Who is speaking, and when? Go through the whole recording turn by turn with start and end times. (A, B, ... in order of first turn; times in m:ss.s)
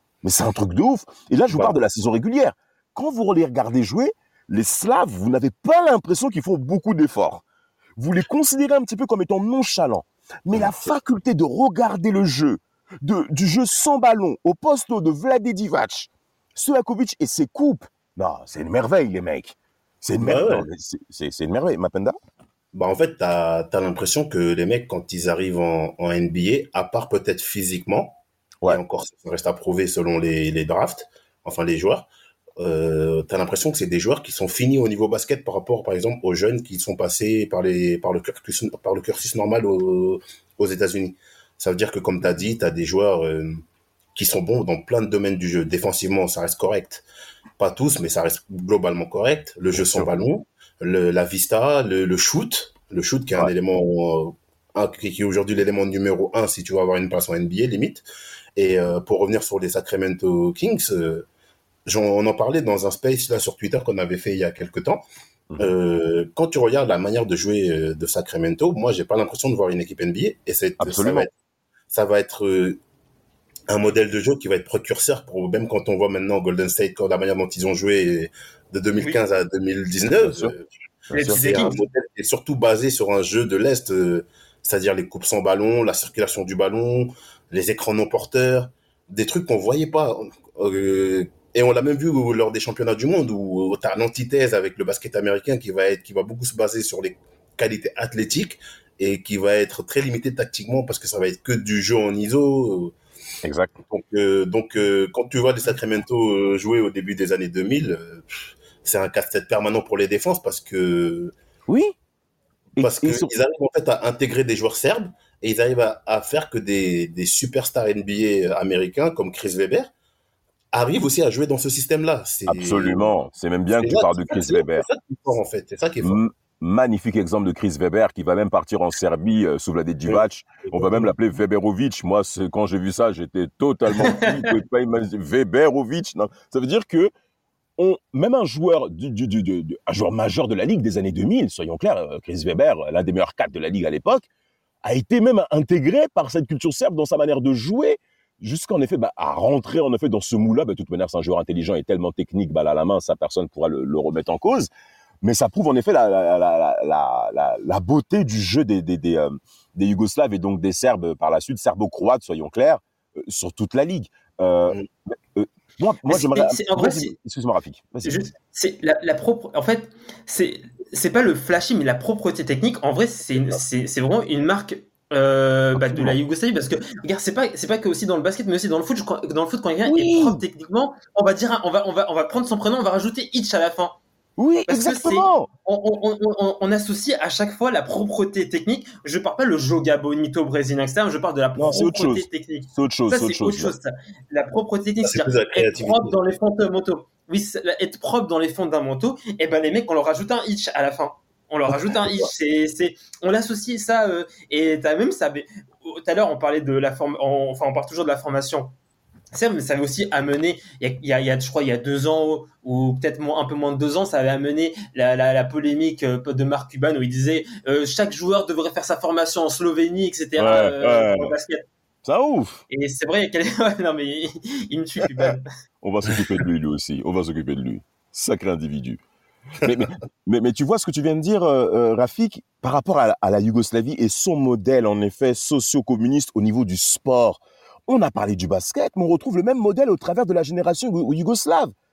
0:00.2-0:07.4 A
0:08.0-0:22.2 A
0:10.5-0:10.9 B
0:20.2-0:20.7 B
0:22.7-0:43.6 B
0:44.1-0:47.0 B
0:47.6-0:58.0 B
0:49.7-0:50.1 A
0:58.6-1:01.2 B
1:01.9-1:05.0 B
1:05.6-1:11.3 B
1:10.8-1:11.3 A
1:11.9-1:12.8 B
1:13.7-1:20.6 B
1:20.2-1:20.5 A
1:21.1-1:21.4 A
1:21.1-1:21.8 C
1:21.2-1:42.9 B
1:43.4-1:43.8 A
1:43.9-1:51.4 B
1:51.7-1:51.9 A
1:52.7-1:53.3 A
1:52.8-1:59.9 B
2:00.7-2:03.1 B
2:02.4-2:04.9 A
2:03.8-2:06.2 B
2:06.0-2:17.1 A
2:10.1-2:11.1 B
2:14.0-2:14.5 C
2:17.8-2:24.3 A
2:24.8-2:34.7 A
2:35.2-2:48.3 A
2:46.1-2:47.1 C
2:48.0-3:04.0 C
2:55.7-2:56.2 A
2:59.9-3:00.4 A
3:04.4-3:05.5 A
3:04.7-3:28.7 C
3:11.6-3:13.7 A
3:15.0-3:16.1 B
3:29.3-3:41.6 C
3:40.4-3:41.4 A
3:42.0-3:42.6 A
3:42.7-3:45.4 C
3:45.2-3:49.0 A
3:49.6-4:01.7 A